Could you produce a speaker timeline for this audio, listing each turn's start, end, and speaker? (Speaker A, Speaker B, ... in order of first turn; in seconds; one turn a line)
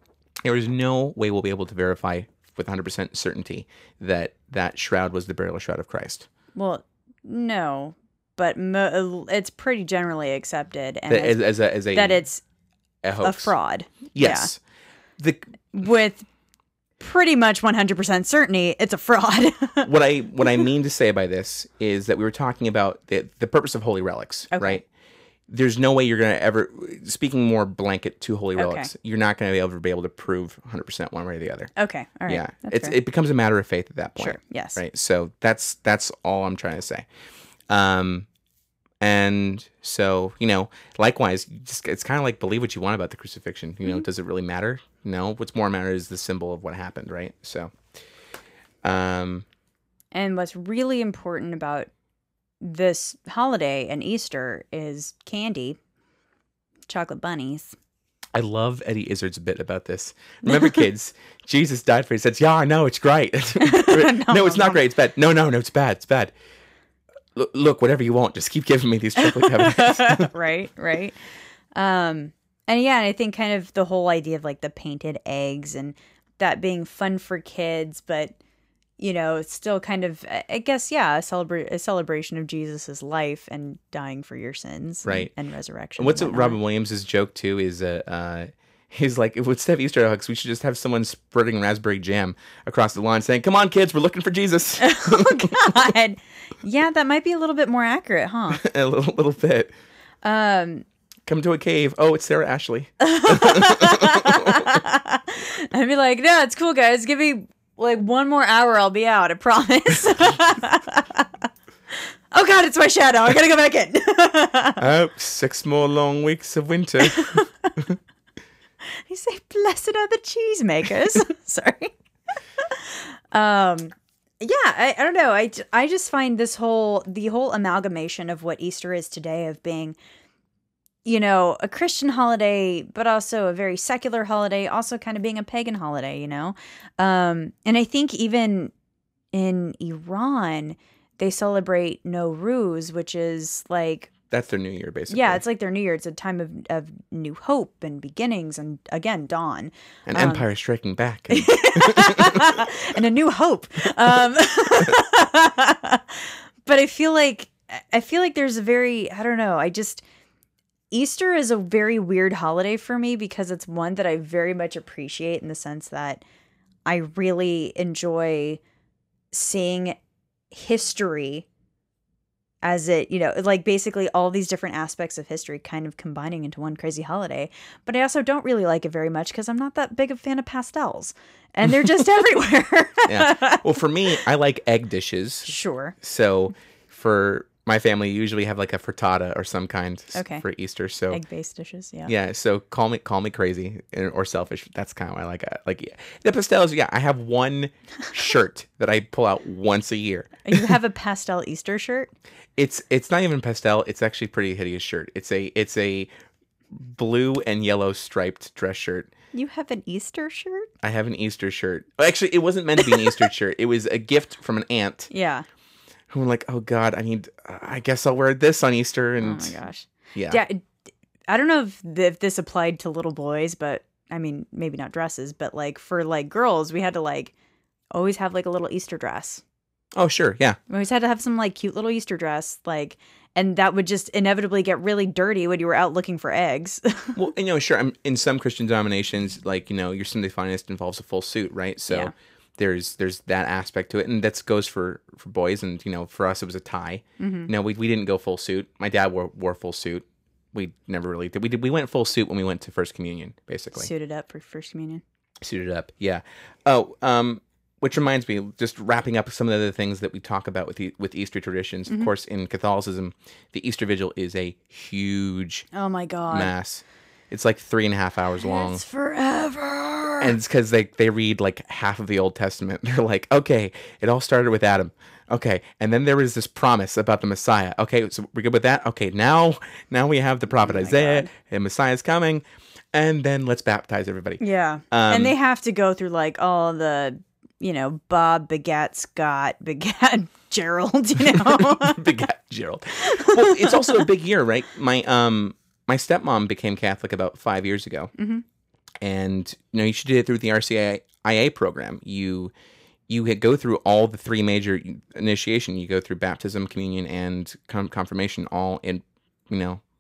Speaker A: 0.4-6.3
Speaker B: 6.5-12.4
Speaker A: 11.1-12.2
Speaker A: 13.0-13.5
Speaker B: 13.2-14.5
Speaker A: 14.1-14.6
Speaker A: 15.2-15.5
Speaker B: 15.7-16.3
Speaker B: 17.0-19.9
Speaker A: 19.8-24.8
Speaker B: 24.5-24.8
Speaker A: 25.5-31.7
Speaker B: 28.6-28.9
Speaker B: 31.8-33.0
Speaker A: 32.3-37.0
Speaker B: 34.2-34.8
Speaker A: 37.7-38.3
Speaker A: 39.0-47.8
Speaker A: 48.8-49.5
Speaker B: 50.1-51.9
Speaker B: 52.6-55.8
Speaker B: 56.9-57.8
Speaker A: 58.3-66.3
Speaker B: 60.5-60.8
Speaker B: 63.6-64.8
Speaker A: 67.3-70.3
Speaker B: 69.4-71.2
Speaker B: 71.7-78.3
Speaker B: 79.0-86.6
Speaker A: 85.0-85.3
Speaker A: 86.0-95.9
Speaker B: 94.8-98.6
Speaker A: 98.5-99.7
Speaker B: 100.2-100.8
Speaker A: 101.2-104.8
Speaker B: 103.0-111.3
Speaker B: 112.3-114.8
Speaker A: 114.8-118.0
Speaker B: 117.0-117.5
Speaker B: 118.9-121.9
Speaker B: 122.6-129.9
Speaker B: 131.0-138.7
Speaker B: 139.3-144.1
Speaker A: 144.3-145.4
Speaker B: 145.1-150.4
Speaker A: 150.1-152.8
Speaker B: 151.3-160.0
Speaker B: 160.9-166.2
Speaker B: 166.8-168.6
Speaker B: 169.3-170.0
Speaker B: 170.5-171.4
Speaker B: 172.6-183.8
Speaker A: 183.1-191.2
Speaker B: 185.5-185.9
Speaker B: 190.1-190.4
Speaker B: 191.1-192.1
Speaker A: 192.1-200.8
Speaker B: 200.4-202.1
Speaker A: 202.6-206.1
Speaker A: 206.7-209.1
Speaker B: 209.3-210.7
Speaker A: 210.8-215.1
Speaker B: 212.8-213.2
Speaker B: 215.1-215.4
Speaker A: 216.1-219.6
Speaker B: 219.2-220.7
Speaker A: 220.1-220.4
Speaker B: 221.3-227.3
Speaker B: 227.9-229.4
Speaker A: 229.9-230.6
Speaker B: 230.7-237.2
Speaker A: 237.1-253.9
Speaker B: 247.2-247.5
Speaker B: 253.7-255.0
Speaker A: 255.4-265.7
Speaker B: 265.7-266.5
Speaker A: 266.3-268.8
Speaker B: 268.4-270.3
Speaker A: 270.2-285.3
Speaker B: 280.5-281.3
Speaker B: 284.4-292.2
Speaker A: 291.2-298.1
Speaker B: 293.0-294.0
Speaker B: 298.2-298.4
Speaker A: 299.0-302.5
Speaker A: 303.1-309.8